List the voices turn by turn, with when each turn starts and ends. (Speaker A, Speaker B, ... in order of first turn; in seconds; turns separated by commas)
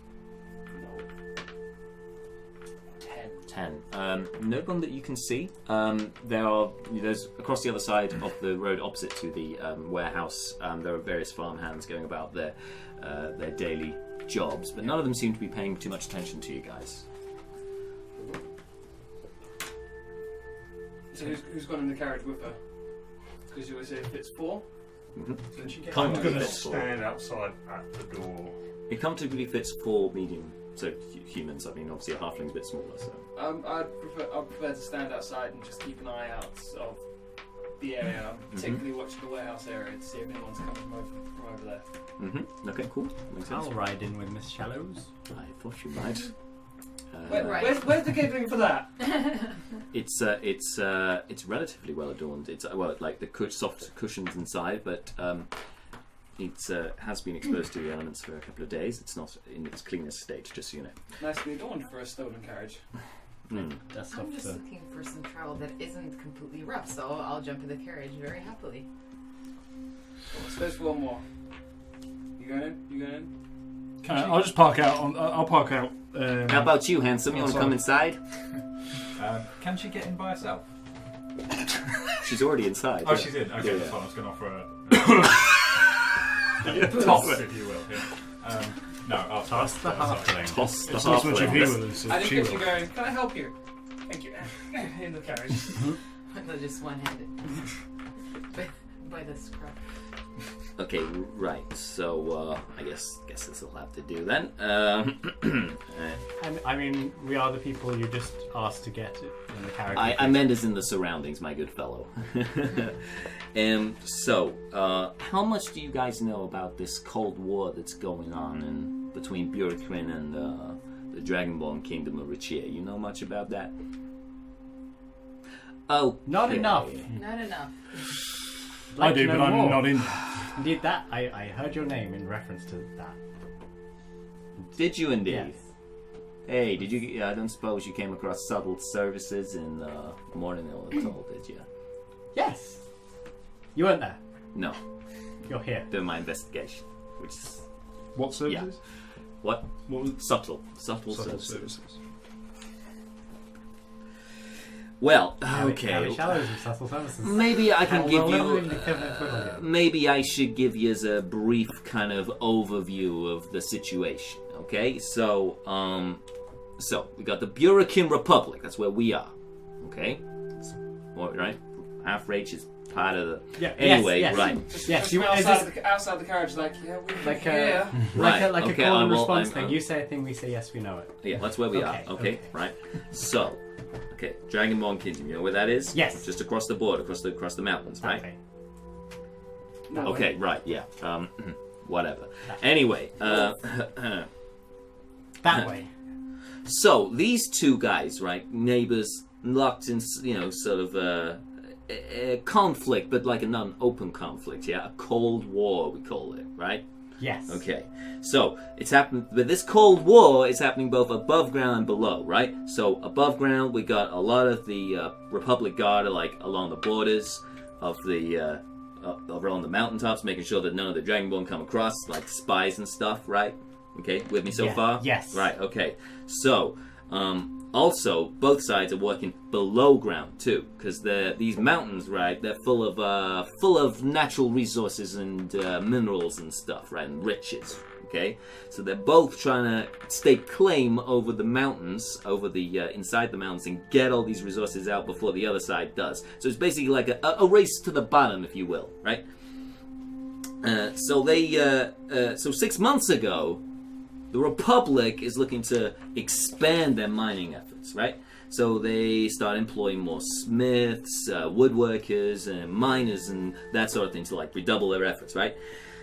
Speaker A: 0.7-1.0, Speaker A: 3.0-3.5, Speaker B: 3.5-17.0, Speaker A: 21.1-22.6, Speaker A: 23.5-24.6, Speaker B: 25.1-27.0, Speaker A: 25.5-26.6, Speaker C: 25.6-26.3, Speaker D: 25.9-28.6, Speaker B: 28.9-33.2, Speaker A: 33.3-37.0, Speaker A: 37.8-41.8, Speaker B: 38.5-38.8, Speaker B: 42.2-43.7, Speaker C: 43.5-45.1, Speaker B: 45.3-46.3, Speaker B: 47.1-47.8, Speaker A: 47.3-49.1, Speaker E: 47.3-47.8, Speaker B: 49.9-55.5, Speaker B: 56.4-60.9, Speaker A: 61.2-62.8, Speaker B: 63.5-63.8, Speaker C: 63.8-64.6, Speaker E: 64.1-68.8, Speaker A: 70.3-71.2, Speaker A: 72.4-73.3, Speaker F: 74.0-77.8, Speaker B: 76.5-78.2, Speaker G: 79.2-80.6, Speaker B: 82.2-84.0, Speaker G: 83.0-85.6, Speaker G: 86.6-90.5, Speaker D: 86.8-87.3, Speaker B: 87.0-87.4, Speaker C: 89.4-90.7, Speaker B: 90.5-91.8, Speaker F: 90.8-92.8, Speaker G: 91.3-91.7, Speaker A: 92.0-93.5, Speaker A: 94.0-95.9, Speaker E: 96.3-97.4, Speaker E: 98.5-99.7, Speaker B: 100.8-106.2, Speaker C: 106.4-110.6, Speaker B: 109.9-123.7, Speaker B: 125.9-127.1, Speaker C: 126.2-127.0, Speaker E: 127.1-127.7, Speaker C: 128.9-133.2, Speaker F: 129.0-130.2, Speaker B: 134.7-135.6, Speaker C: 135.2-135.5, Speaker B: 136.4-141.6, Speaker C: 142.3-142.8, Speaker C: 143.7-144.2, Speaker C: 145.5-145.9, Speaker B: 145.9-147.6, Speaker F: 148.1-148.8, Speaker B: 149.4-151.7, Speaker F: 149.8-150.2, Speaker F: 151.1-152.0, Speaker B: 155.0-156.4, Speaker C: 155.4-159.7, Speaker B: 157.2-166.2, Speaker B: 166.8-170.2, Speaker B: 171.1-174.7, Speaker C: 173.6-175.7, Speaker A: 174.2-178.1, Speaker C: 177.2-182.5, Speaker B: 178.1-179.8, Speaker B: 181.2-183.6, Speaker B: 184.1-188.2, Speaker C: 185.9-186.3, Speaker C: 188.0-188.4, Speaker A: 189.9-190.3, Speaker B: 190.0-194.3, Speaker C: 195.4-195.9, Speaker B: 196.7-206.8, Speaker C: 207.2-207.6, Speaker B: 207.5-249.2, Speaker C: 224.5-225.5, Speaker B: 250.6-253.6, Speaker B: 254.3-265.6